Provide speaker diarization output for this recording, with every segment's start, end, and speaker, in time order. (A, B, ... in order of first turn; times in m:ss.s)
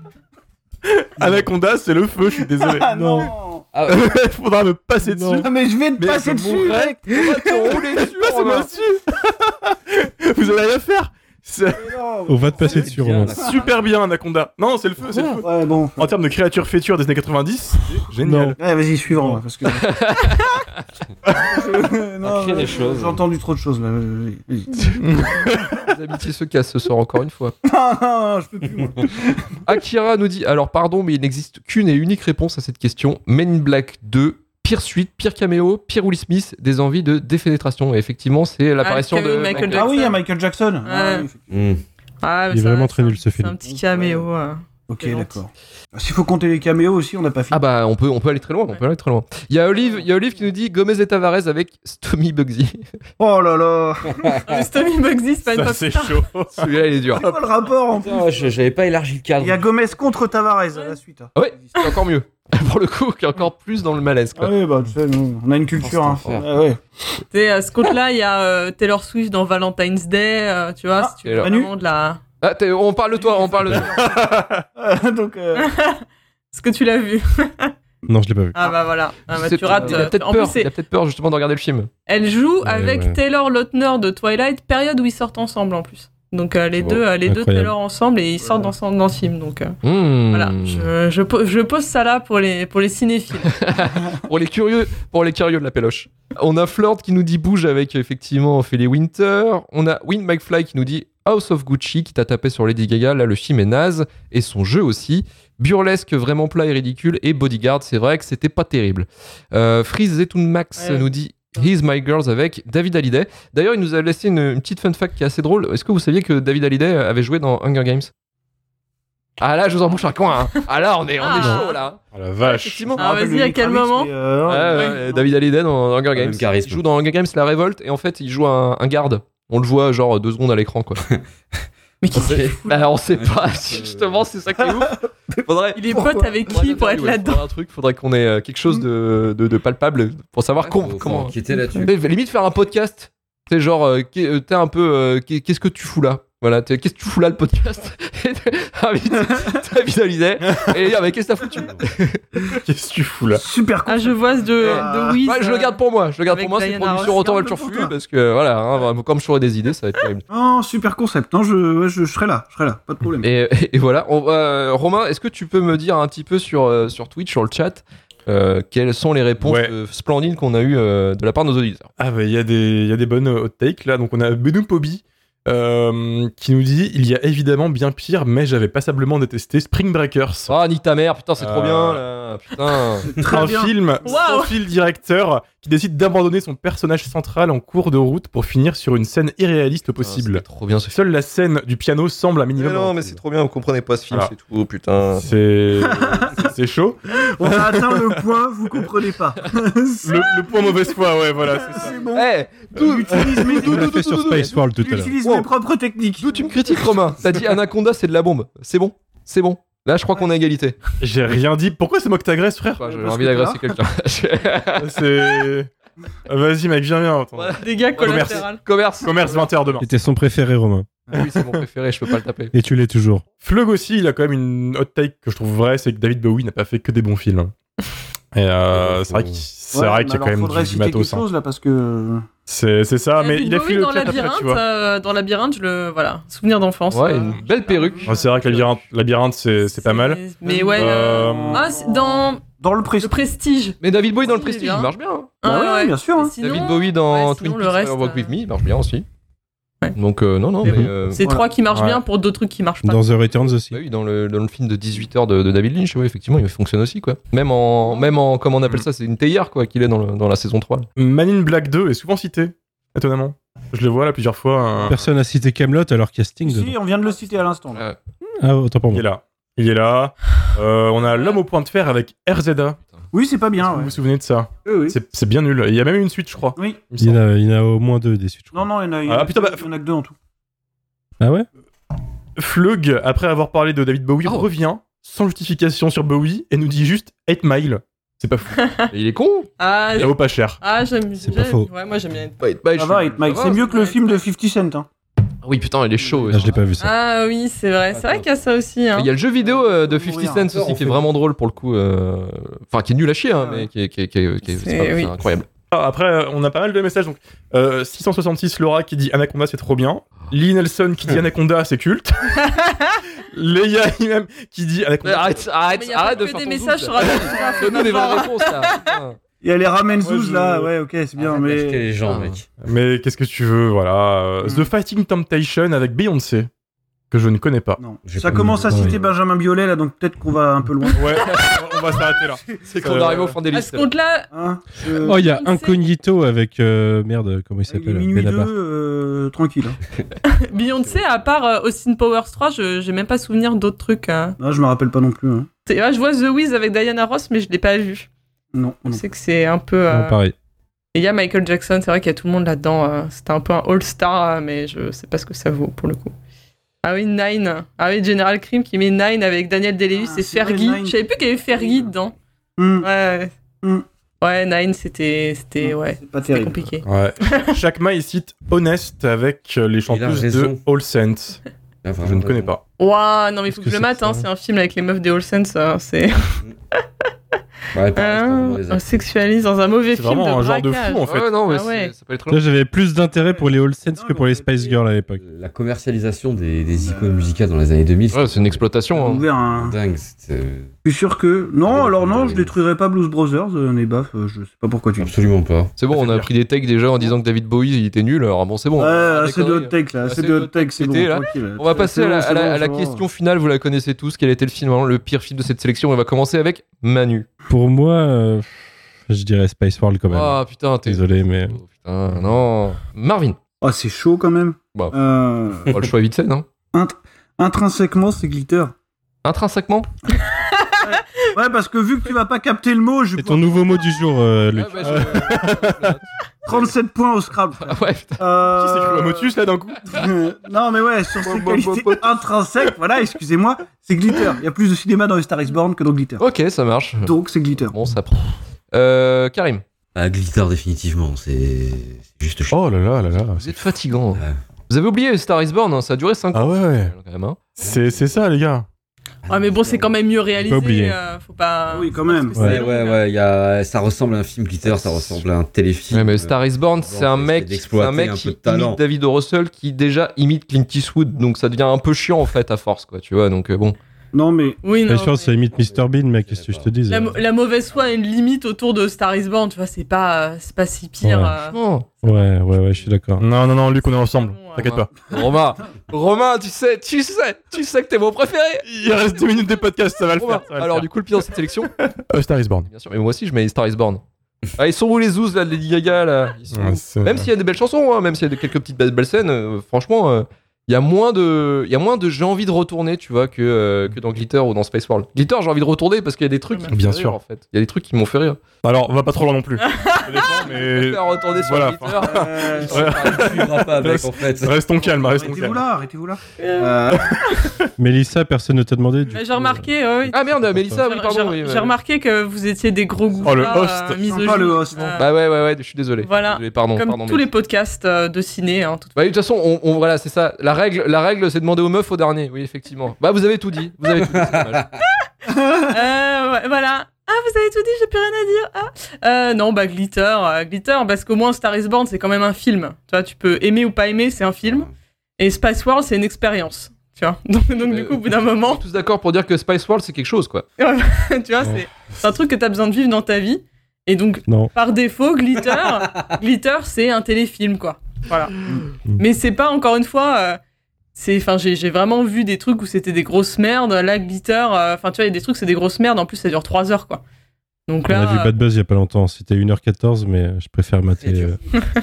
0:00.8-0:02.9 A
0:02.4-0:03.6 B
0:02.9-0:03.3 C
0:03.8-0:05.4 A
0:05.0-0:05.5 C
0:05.3-0:07.8 B
0:06.0-0:06.9 A
0:07.1-0:08.7 D
0:07.8-0:11.9 A
0:11.7-0:13.6 B
0:12.3-0:13.4 C
0:12.6-0:13.8 E
0:13.3-0:15.5 A
0:15.4-0:16.1 B
0:16.0-0:18.6 A
0:18.2-0:18.6 C
0:18.6-0:19.9 B
0:19.8-0:20.6 D
0:21.3-0:24.9 B
0:22.2-0:23.2 E
0:24.9-0:25.8 A
0:25.8-0:27.5 D
0:27.6-0:29.4 B
0:29.6-0:39.9 D
0:38.8-0:40.2 F
0:39.6-0:41.6 B
0:40.8-0:41.3 F
0:41.5-0:41.8 E
0:42.2-0:45.3 F
0:42.5-0:43.7 C
0:43.7-0:44.2 B
0:44.9-0:47.6 B
0:47.5-0:52.8 D
0:53.2-0:54.3 B
0:54.1-0:54.4 E
0:54.4-0:56.3 F
0:55.5-0:56.7 A
0:56.6-0:57.3 D
0:57.1-0:58.5 B
0:57.9-0:59.8 E
0:59.4-1:01.6 B
1:01.3-1:04.5 D
1:04.4-1:07.2 B
1:05.9-1:06.4 E
1:07.3-1:12.2 F
1:11.0-1:11.7 B
1:11.2-1:11.5 D
1:12.4-1:14.0 D
1:13.2-1:15.7 B
1:13.8-1:14.6 A
1:15.6-1:17.7 F
1:18.1-1:18.6 C
1:18.5-1:20.7 F
1:19.3-1:21.9 D
1:22.1-1:29.8 F
1:22.6-1:23.2 C
1:26.7-1:27.0 E
1:27.2-1:27.7 C
1:28.4-1:28.7 B
1:29.8-1:30.9 D
1:30.3-1:33.6 F
1:33.6-1:58.1 D
1:50.8-1:51.1 F
1:59.4-2:03.0 D
2:01.2-2:01.8 F
2:02.1-2:03.0 A
2:03.0-2:04.1 F
2:03.0-2:05.3 B
2:04.5-2:11.1 D
2:06.1-2:06.8 E
2:12.0-2:12.8 F
2:12.1-2:14.3 E
2:12.2-2:32.2 D
2:15.7-2:17.5 F
2:15.9-2:16.2 B
2:20.6-2:21.9 E
2:21.5-2:21.9 F
2:31.5-2:31.8 E
2:32.6-2:33.4 A
2:33.4-2:35.2 B
2:33.8-2:37.9 F
2:34.6-2:40.2 D
2:40.3-2:43.3 B
2:43.2-2:51.9 D
2:49.4-2:49.7 A
2:52.0-3:00.5 A
3:00.5-3:03.1 D
3:01.4-3:02.0 A
3:03.0-3:03.9 B
3:03.3-3:13.2 A
3:04.0-3:04.6 F
3:10.0-3:11.0 D
3:12.5-3:15.3 D
3:15.2-3:18.2 A
3:15.8-3:16.5 B
3:17.1-3:20.7 B
3:20.0-3:22.0 A
3:21.3-3:26.8 B
3:22.1-3:24.6 D
3:23.1-3:23.5 A
3:23.6-3:25.2 C
3:25.2-3:25.5 D
3:26.2-3:30.8 D
3:31.0-3:32.9 A
3:32.8-3:34.9 D
3:32.8-3:33.8 B
3:34.8-3:35.7 A
3:36.3-3:38.4 A
3:37.3-3:39.8 D
3:37.6-3:38.6 F
3:39.0-3:39.8 A
3:39.8-3:40.9 C
3:41.1-3:42.5 D
3:42.5-3:43.2 C
3:43.4-3:47.5 A
3:48.3-3:51.2 A
3:48.7-3:49.5 E
3:49.7-3:52.3 B
3:52.5-3:54.6 A
3:53.2-3:58.3 F
3:56.9-3:58.8 D
3:58.0-4:01.6 A
3:59.6-4:02.4 F
4:00.4-4:03.3 B
4:03.0-4:08.4 F
4:03.8-4:05.3 D
4:05.4-4:06.6 B
4:06.4-4:09.0 D
4:09.9-4:11.3 D
4:10.6-4:10.9 C
4:10.6-4:13.0 F
4:11.2-4:11.5 B
4:11.7-4:12.0 A
4:12.8-4:13.8 C
4:13.7-4:20.8 D
4:21.0-4:25.0 A
4:24.8-4:26.7 C
4:26.4-4:27.8 B
4:27.7-4:28.0 D
4:28.4-4:29.0 C
4:28.9-4:32.8 A
4:31.1-4:31.4 D
4:33.1-4:33.9 B
4:33.6-4:37.2 A
4:34.6-4:35.0 B
4:36.5-4:36.9 B
4:37.0-4:38.7 C
4:38.5-4:40.1 B
4:39.0-4:39.7 A
4:41.2-4:41.5 C
4:42.4-4:48.6 A
4:48.6-4:48.9 F
4:48.9-4:50.1 D
4:49.6-4:52.4 F
4:50.0-4:50.6 A
4:51.2-4:51.7 C
4:52.4-4:53.6 D
4:52.7-4:54.9 B
4:53.3-4:54.2 F
4:55.4-4:56.7 D
4:56.2-4:56.7 E
4:56.3-4:56.9 C
4:56.8-4:59.1 F
4:57.9-4:58.4 E
4:58.9-5:05.5 D
4:59.4-5:00.5 B
5:00.4-5:01.1 E
5:03.4-5:03.7 B
5:04.4-5:05.1 F
5:05.7-5:12.2 A
5:12.4-5:13.0 F
5:13.3-5:15.5 A
5:15.0-5:19.2 D
5:15.6-5:18.8 F
5:19.4-5:21.9 B
5:20.0-5:20.7 A
5:21.2-5:22.5 E
5:22.0-5:22.4 D
5:22.6-5:26.5 A
5:24.4-5:24.7 B
5:27.1-5:27.8 A
5:27.8-5:31.2 B
5:28.0-5:29.2 E
5:28.6-5:28.9 C
5:30.9-5:31.5 F
5:30.9-5:33.4 A
5:31.2-5:31.5 D
5:32.1-5:32.5 B
5:32.6-5:33.9 D
5:33.5-5:34.3 F
5:34.3-5:35.2 B
5:35.0-5:35.8 F
5:35.0-5:38.5 C
5:37.7-5:39.8 B
5:40.2-5:44.4 F
5:40.6-5:41.2 E
5:44.4-5:45.5 B
5:45.7-5:48.1 F
5:48.5-5:49.0 B
5:48.9-5:50.2 F
5:49.9-5:50.3 C
5:50.9-5:56.1 F
5:56.8-6:02.1 F
5:59.9-6:01.0 B
6:01.5-6:01.8 B
6:02.6-6:02.9 B
6:02.8-6:03.3 F
6:04.2-6:07.5 F
6:05.6-6:06.6 B
6:06.8-6:11.4 A
6:09.9-6:10.6 E
6:11.8-6:12.5 E
6:12.0-6:12.6 A
6:12.8-6:16.4 F
6:13.5-6:14.3 C
6:17.7-6:19.2 E
6:17.9-6:21.9 F
6:19.9-6:21.3 A
6:21.0-6:22.4 D
6:22.3-6:25.2 C
6:23.1-6:24.7 B
6:24.7-6:28.7 E
6:26.6-6:27.4 B
6:28.1-6:29.2 D
6:28.9-6:29.8 B
6:29.4-6:30.7 E
6:30.8-6:35.3 B
6:31.6-6:32.5 E
6:35.0-6:35.7 E
6:35.8-6:47.3 D
6:35.9-6:36.3 A
6:38.8-6:43.0 B
6:47.5-6:51.6 C
6:50.1-6:53.4 D
6:53.6-6:55.8 B
6:55.7-6:56.4 D
6:56.7-6:58.7 B
6:59.2-6:59.9 D
7:00.2-7:00.8 F
7:00.8-7:03.8 B
7:03.2-7:05.9 C
7:04.5-7:06.7 D
7:05.0-7:05.2 B
7:06.4-7:09.3 B
7:07.6-7:08.2 D
7:08.5-7:09.8 A
7:09.9-7:16.2 B
7:11.2-7:12.3 D
7:16.2-7:17.1 D
7:17.0-7:17.8 B
7:17.7-7:19.6 D
7:19.9-7:22.7 E
7:22.5-7:23.6 A
7:23.4-7:27.4 D
7:26.3-7:26.9 A
7:27.6-7:28.6 A
7:27.6-7:28.0 E
7:29.2-7:30.0 E
7:29.3-7:33.0 F
7:30.4-7:30.9 C
7:31.7-7:32.6 B
7:32.4-7:38.8 E
7:34.6-7:35.2 D
7:35.9-7:43.8 D
7:44.1-7:44.6 B
7:44.6-7:45.4 F
7:44.8-7:47.2 C
7:45.5-7:47.1 E
7:46.9-7:52.3 F
7:51.0-7:51.4 C
7:51.5-7:52.1 D
7:52.0-7:53.2 C
7:53.2-7:54.9 A
7:53.7-7:54.8 F
7:54.6-7:58.6 D
7:58.6-8:00.9 A
8:00.1-8:02.0 D
8:02.1-8:02.7 A
8:02.6-8:04.0 D
8:04.6-8:18.4 D
8:06.5-8:07.3 A
8:16.5-8:16.7 F
8:16.7-8:17.2 A
8:18.6-8:25.7 A
8:19.6-8:20.4 F
8:20.2-8:23.4 D
8:22.0-8:23.4 B
8:23.2-8:25.4 E
8:24.8-8:27.1 B
8:26.4-8:26.8 F
8:27.8-8:30.8 C
8:29.1-8:30.2 F
8:30.1-8:31.7 D
8:30.8-8:35.1 F
8:33.2-8:34.1 A
8:34.0-8:34.9 B
8:34.8-8:37.3 D
8:36.0-8:38.9 F
8:38.9-8:44.6 D
8:44.0-8:44.7 E
8:45.6-8:58.6 F
8:54.4-8:54.7 E
8:57.6-9:00.4 D
9:00.6-9:10.4 F
9:10.9-9:17.0 F
9:17.7-9:18.3 F
9:17.9-9:21.4 C
9:21.0-9:21.4 E